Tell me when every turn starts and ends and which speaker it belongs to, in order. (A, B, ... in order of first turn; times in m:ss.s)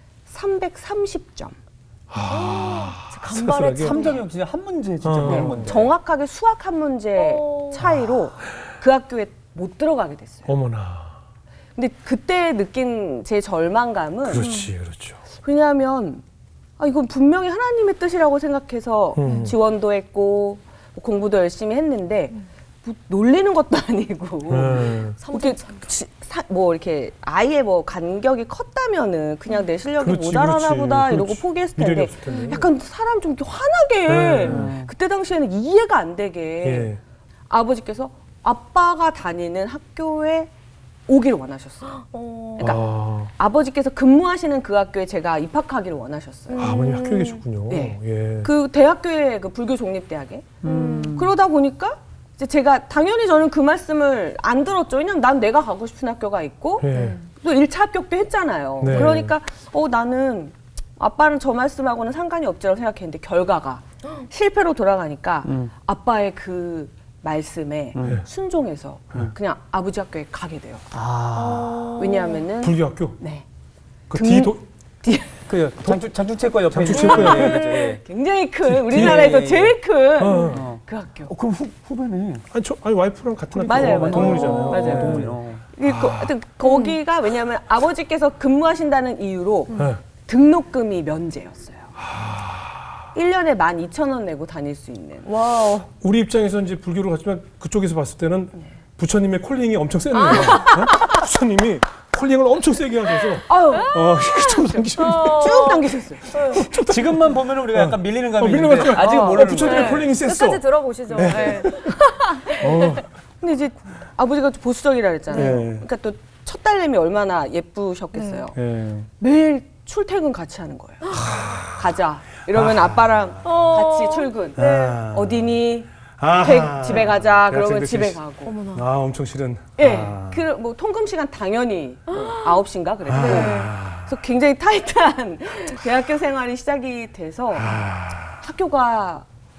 0:00.3-0:01.6 A
0:02.1-0:04.1 B
0:02.3-0:04.2 C
0:03.8-0:05.9 D
0:05.0-0:05.8 B
0:05.2-0:10.5 A
0:07.2-0:07.8 C
0:10.4-0:11.2 B
0:11.8-0:14.5 A
0:14.2-0:15.2 B
0:14.4-0:14.7 C
0:15.3-0:16.2 A
0:16.8-0:36.9 A
0:19.2-0:19.6 B
0:19.2-0:19.5 C
0:24.5-0:25.2 B
0:25.2-0:25.9 C
0:30.0-0:32.6 B
0:32.3-0:32.6 C
0:34.1-0:34.8 B
0:34.4-0:34.9 D
0:36.6-0:37.0 B
0:37.5-0:40.5 A
0:41.1-0:42.0 A
0:41.9-0:42.8 C
0:42.6-0:43.3 B
0:42.6-0:46.8 A
0:46.5-0:47.4 C
0:46.6-0:48.5 B
0:47.7-0:50.5 A
0:50.6-0:51.4 D
0:50.6-0:51.2 C
0:51.1-1:10.8 A
0:56.8-0:57.2 B
0:56.9-0:57.2 C
0:58.8-0:59.4 B
1:05.4-1:05.7 D
1:08.0-1:08.2 D
1:10.9-1:11.9 D
1:11.3-1:12.4 C
1:12.0-1:13.5 A
1:12.6-1:13.2 B
1:14.1-1:14.6 B
1:14.1-1:15.4 A
1:15.5-1:18.0 D
1:15.8-1:16.1 B
1:16.7-1:17.6 B
1:16.9-1:21.3 A
1:17.4-1:17.8 C
1:18.6-1:19.4 B
1:18.8-1:19.8 D
1:20.2-1:20.7 B
1:20.3-1:20.6 C
1:20.5-1:22.5 D
1:22.5-1:25.3 B
1:23.5-1:25.6 D
1:23.6-1:31.9 A
1:24.3-1:25.0 C
1:26.7-1:26.9 C
1:29.7-1:30.0 B
1:32.0-1:32.8 B
1:33.1-1:35.3 A
1:35.3-1:35.9 C
1:35.9-1:45.6 B
1:40.2-1:41.1 C
1:40.4-1:41.1 A
1:43.5-1:46.4 A
1:43.7-1:43.9 C
1:45.0-1:46.7 C
1:46.3-1:52.0 B
1:46.8-1:50.1 D
1:49.0-1:53.0 C
1:51.6-1:58.6 A
1:52.6-1:53.1 B
1:55.3-1:55.6 C
1:55.3-1:55.8 B
1:58.1-1:58.4 C
1:58.5-1:59.1 B
1:59.2-2:08.6 A
2:01.1-2:01.9 B
2:02.6-2:03.5 B
2:03.4-2:05.0 C
2:04.6-2:05.6 B
2:06.2-2:08.2 B
2:08.4-2:08.8 C
2:08.7-2:10.4 B
2:09.8-2:19.3 A
2:12.1-2:12.6 C
2:13.1-2:14.1 B
2:13.1-2:13.7 C
2:17.6-2:18.4 B